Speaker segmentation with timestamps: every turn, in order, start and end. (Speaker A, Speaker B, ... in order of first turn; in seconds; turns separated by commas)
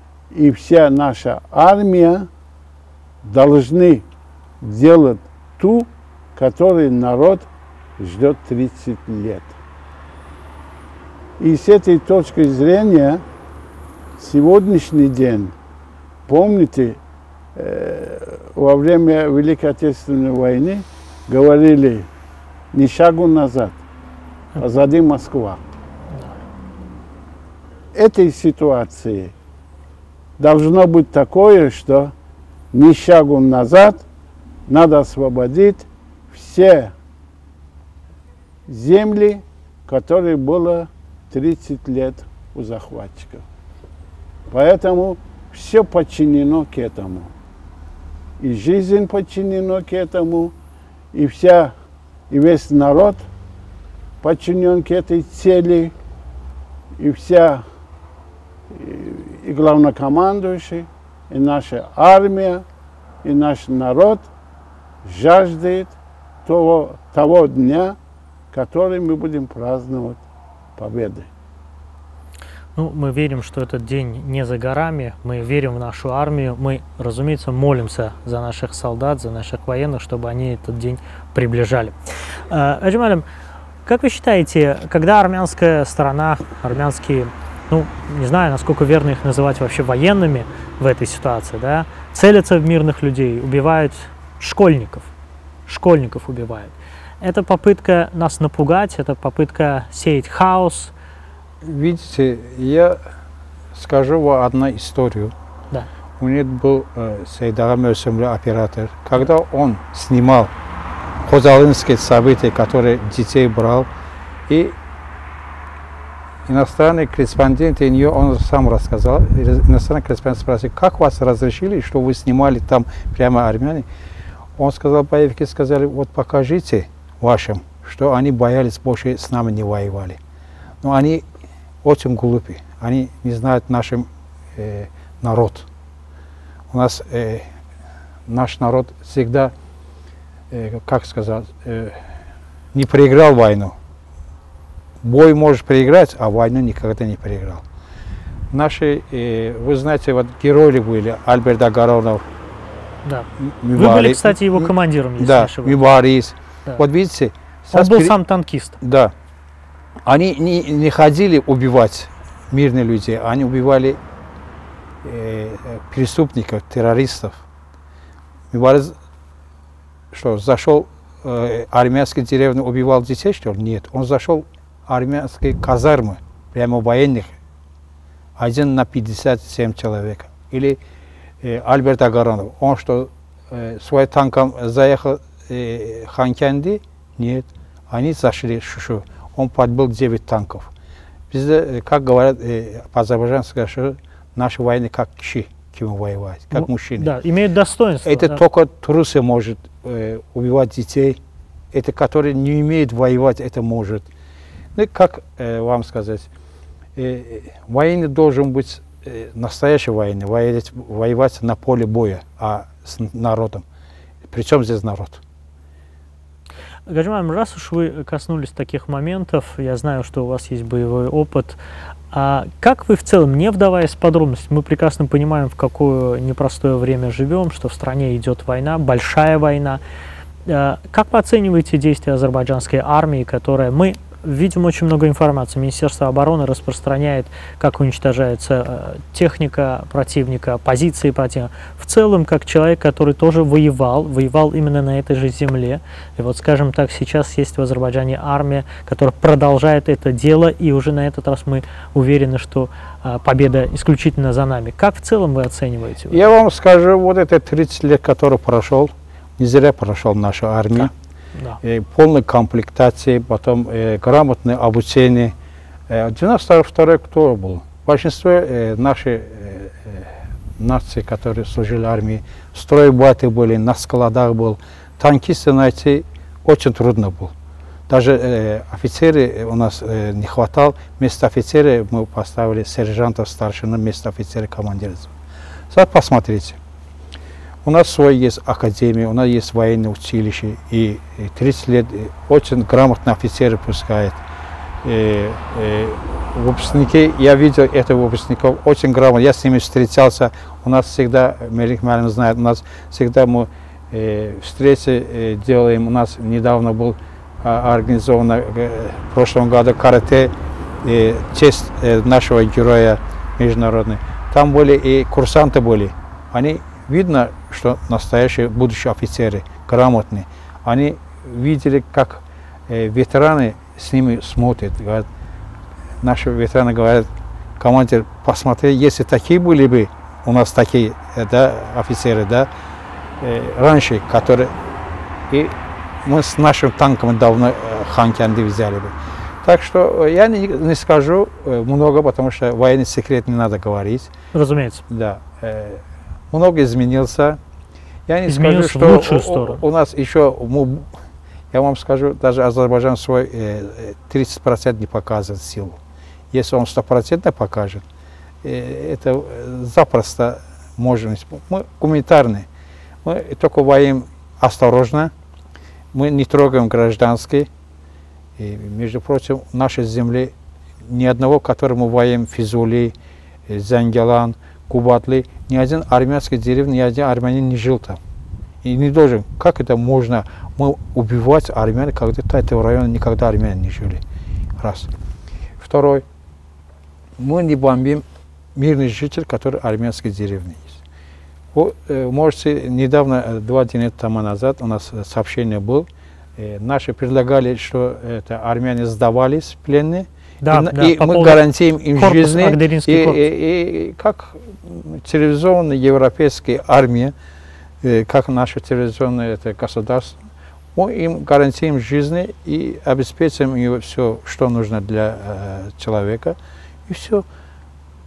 Speaker A: 0.3-2.3, Speaker A: 3.2-4.0, Speaker A: 4.6-7.5, Speaker A: 8.0-9.6, Speaker A: 11.4-13.2, Speaker A: 14.2-15.5, Speaker A: 16.3-17.0, Speaker A: 17.5-22.1, Speaker A: 22.7-23.8, Speaker A: 24.6-25.6, Speaker A: 27.9-29.3, Speaker A: 30.4-32.1, Speaker A: 32.7-34.0, Speaker A: 34.7-36.9, Speaker A: 38.7-43.5, Speaker A: 44.5-47.3, Speaker A: 48.4-50.5, Speaker A: 51.1-51.8, Speaker A: 52.3-53.3, Speaker A: 54.2-55.9, Speaker A: 57.0-57.6, Speaker A: 58.7-62.6, Speaker A: 63.2-64.2, Speaker A: 65.0-68.0, Speaker A: 68.5-70.2, Speaker A: 70.8-71.3, Speaker B: 72.8-81.9, Speaker B: 82.5-83.2, Speaker B: 83.8-95.1, Speaker B: 95.7-100.9, Speaker C: 101.6-103.0, Speaker C: 103.7-105.3, Speaker C: 106.2-110.5, Speaker C: 111.2-113.9, Speaker C: 114.5-114.8, Speaker C: 116.5-123.8, Speaker C: 124.6-130.2, Speaker C: 130.8-131.2, Speaker C: 131.8-135.7, Speaker C: 136.7-137.4, Speaker C: 138.3-139.5, Speaker C: 140.5-141.9, Speaker C: 142.7-143.8, Speaker C: 145.0-147.6, Speaker C: 148.5-152.2, Speaker B: 153.0-155.8, Speaker C: 153.4-158.2, Speaker B: 157.7-158.8, Speaker C: 158.8-159.1, Speaker C: 160.1-164.0, Speaker C: 165.0-167.4, Speaker C: 168.5-168.9, Speaker C: 170.1-177.3, Speaker C: 178.4-180.8, Speaker C: 181.4-190.7, Speaker C: 191.3-197.1, Speaker B: 196.5-198.4, Speaker C: 198.0-201.2, Speaker C: 201.7-204.1, Speaker C: 204.8-206.3, Speaker C: 206.9-213.6, Speaker C: 214.3-215.2, Speaker B: 216.9-221.6, Speaker B: 222.1-229.8, Speaker B: 230.5-256.2, Speaker C: 256.1-260.9, Speaker B: 260.7-261.6, Speaker C: 261.6-265.3, Speaker C: 265.9-277.3, Speaker C: 277.9-285.1, Speaker C: 285.7-286.6, Speaker C: 287.6-294.2, Speaker C: 294.8-310.3, Speaker C: 310.8-325.1, Speaker C: 326.0-327.1, Speaker C: 327.6-332.5, Speaker C: 333.2-334.5, Speaker C: 335.3-338.9, Speaker C: 339.4-344.1, Speaker B: 344.3-344.8, Speaker C: 344.9-347.4, Speaker C: 348.1-350.9, Speaker B: 348.3-349.6, Speaker C: 351.5-355.8, Speaker C: 356.3-357.8, Speaker C: 358.4-362.4, Speaker C: 363.0-365.1, Speaker C: 365.9-367.5, Speaker C: 368.4-370.3, Speaker C: 370.9-372.9, Speaker C: 373.5-378.0, Speaker C: 378.6-384.0, Speaker C: 384.6-384.9, Speaker C: 385.6-386.0, Speaker C: 387.2-388.0, Speaker C: 388.6-390.8, Speaker C: 391.5-407.1, Speaker B: 400.4-401.4, Speaker B: 401.9-403.2, Speaker C: 407.8-410.1, Speaker C: 410.7-416.4, Speaker C: 416.9-417.2